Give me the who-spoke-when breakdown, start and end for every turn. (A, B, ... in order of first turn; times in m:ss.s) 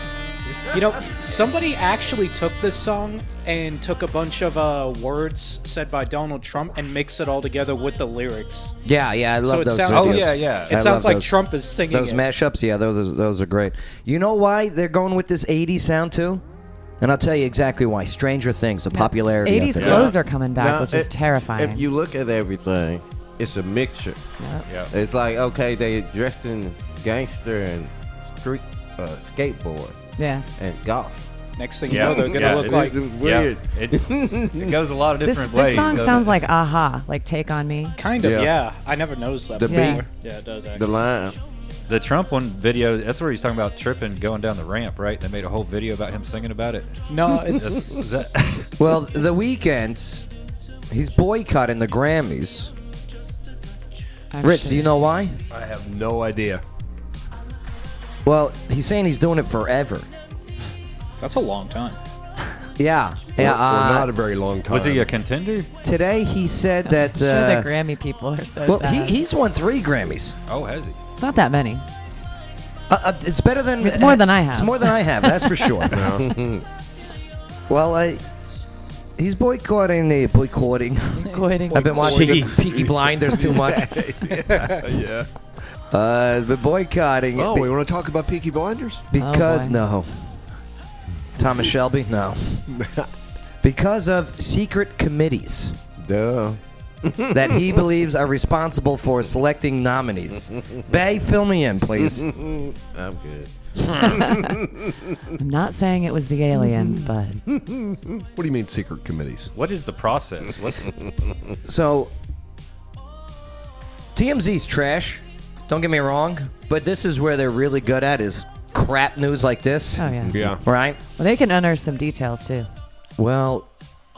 0:00.7-0:08.7 A
0:08.8-0:16.4 B
0:09.4-0:12.2 A
0:09.9-0:10.8 C
0:17.0-0:20.1 B
0:18.9-0:21.8 D
0:19.8-0:20.1 C
0:19.8-0:24.2 E
0:24.4-0:24.6 D
0:24.6-0:24.9 C
0:24.9-0:30.0 E
0:30.2-0:30.4 D
0:30.6-0:31.2 E
0:31.6-0:33.0 A
0:31.8-0:34.7 E
0:31.9-0:36.3 C
0:35.2-0:38.0 D
0:35.7-0:36.3 E
0:38.0-0:40.9 A
0:38.2-0:38.7 E
0:39.6-0:40.1 E
0:39.7-0:40.0 D
0:40.7-0:41.4 E
0:41.9-0:48.7 C
0:47.1-0:48.0 A
0:48.8-0:50.2 B
0:50.9-0:52.7 B
0:54.3-0:54.9 D
0:54.4-0:55.4 B
0:55.5-0:56.6 F
0:58.2-1:00.1 B
1:01.2-1:02.0 A
1:02.8-1:04.1 B
1:03.4-1:05.1 F
1:04.7-1:05.7 C
1:05.8-1:07.7 B
1:06.8-1:09.2 D
1:08.6-1:10.4 B
1:10.5-1:11.0 C
1:11.2-1:11.8 D
1:12.9-1:16.2 B
1:13.8-1:15.9 D
1:15.9-1:16.6 E
1:17.7-1:18.2 B
1:19.2-1:24.0 B
1:21.2-1:22.6 D
1:21.7-1:25.3 F
1:25.9-1:27.7 B
1:27.4-1:29.0 F
1:29.1-1:30.4 B
1:29.2-1:29.8 D
1:31.4-1:32.6 B
1:32.7-1:33.1 F
1:33.6-1:35.8 B
1:36.0-1:37.4 E
1:37.3-1:42.2 B
1:42.1-1:45.1 E
1:44.0-1:44.5 D
1:45.4-1:47.4 D
1:47.6-1:48.0 E
1:48.3-1:49.5 F
1:49.5-1:50.9 C
1:50.6-1:51.3 E
1:51.6-1:52.1 B
1:54.1-2:01.0 B
2:00.0-2:00.4 D
2:00.3-2:00.6 F
2:01.2-2:02.7 D
2:03.2-2:03.7 B